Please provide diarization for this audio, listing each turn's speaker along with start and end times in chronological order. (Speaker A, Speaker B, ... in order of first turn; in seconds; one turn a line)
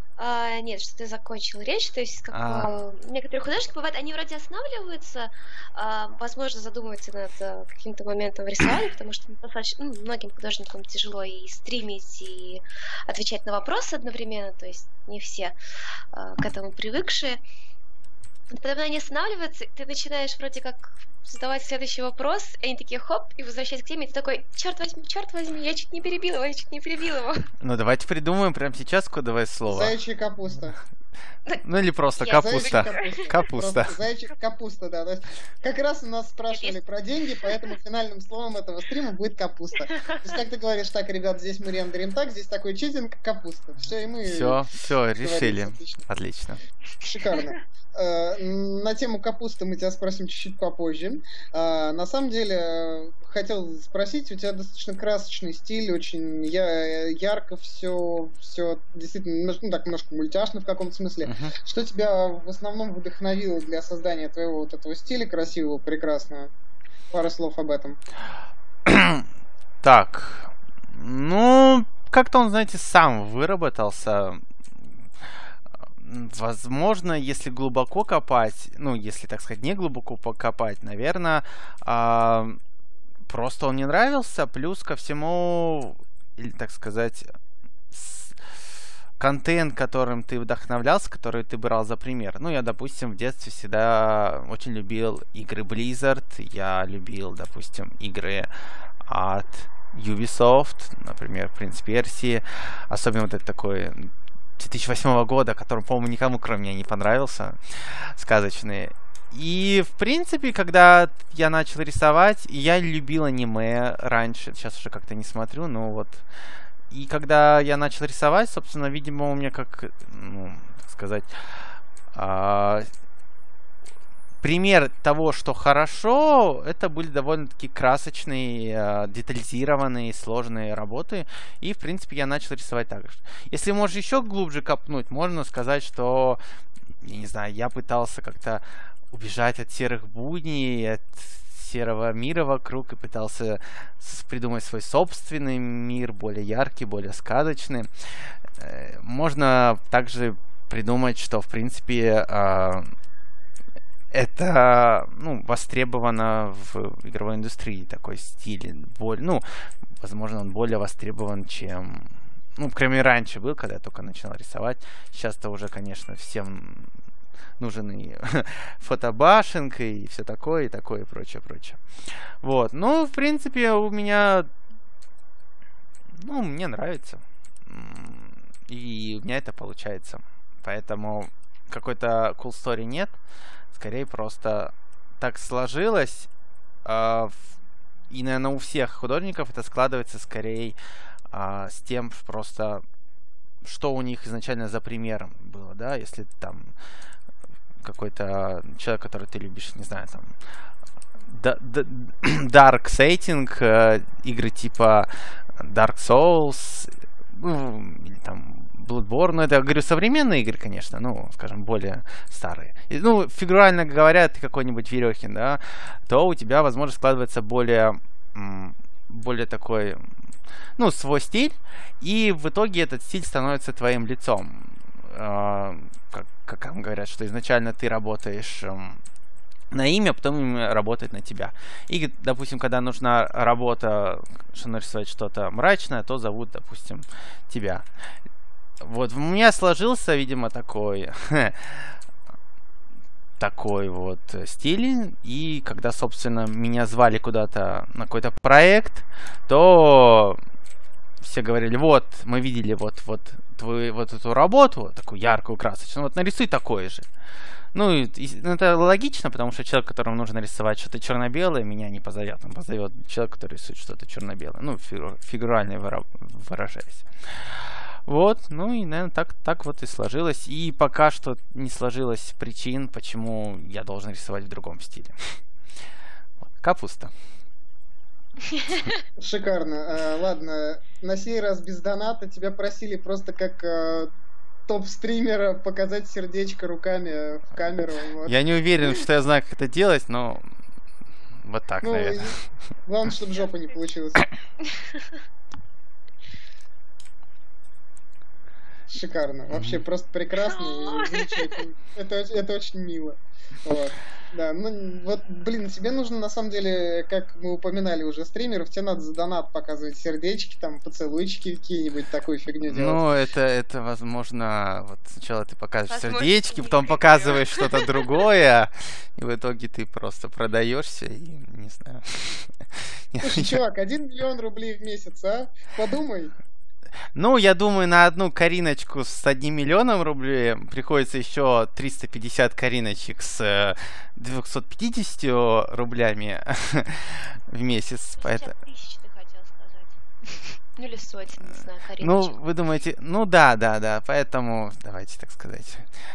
Speaker A: 0.2-15.6
Speaker B: 2.3-2.8
Speaker A: 16.1-17.4
Speaker A: 18.5-27.5
Speaker B: 27.6-29.9
Speaker C: 29.7-30.8
Speaker B: 31.6-34.0
Speaker A: 32.2-33.3
Speaker C: 32.3-44.6
Speaker A: 37.4-37.7
Speaker A: 39.9-40.4
Speaker B: 44.2-46.6
Speaker C: 45.2-46.1
Speaker C: 47.0-66.5
Speaker B: 61.2-61.5
Speaker C: 67.1-68.0
Speaker B: 68.8-69.3
Speaker B: 69.8-74.4
Speaker B: 76.0-82.6
Speaker B: 83.3-87.3
Speaker B: 87.9-88.4
Speaker B: 89.2-98.5
Speaker B: 99.1-116.2
Speaker B: 116.9-121.3
Speaker B: 122.1-122.9
Speaker B: 124.4-136.4
Speaker B: 137.0-147.9
Speaker B: 148.6-152.9
Speaker B: 154.1-159.4
Speaker B: 160.0-166.9
Speaker B: 167.6-171.8
Speaker B: 172.4-174.5
Speaker B: 176.2-183.2
Speaker B: 183.7-186.3
Speaker B: 186.8-187.5
Speaker B: 188.1-190.8
Speaker B: 191.3-192.8
Speaker B: 193.6-196.7
Speaker B: 197.8-200.3
Speaker B: 201.3-220.1
Speaker B: 220.8-229.0
Speaker B: 229.7-237.9
Speaker B: 238.8-242.0
Speaker B: 243.4-250.4
Speaker B: 251.2-257.1
Speaker B: 257.7-267.6
Speaker B: 268.1-275.3
Speaker B: 276.5-277.1
Speaker A: 278.5-278.9
Speaker C: 279.2-284.1
Speaker C: 284.7-288.4
Speaker B: 288.3-290.5
Speaker B: 291.4-292.3
Speaker C: 291.8-294.3
Speaker A: 294.7-295.1
Speaker C: 298.9-313.0
Speaker B: 299.5-299.8
Speaker A: 300.5-301.6
Speaker B: 312.7-323.6
Speaker A: 315.9-318.1
Speaker C: 323.2-326.3
Speaker B: 327.1-338.5
Speaker A: 338.2-342.4
Speaker B: 342.0-345.9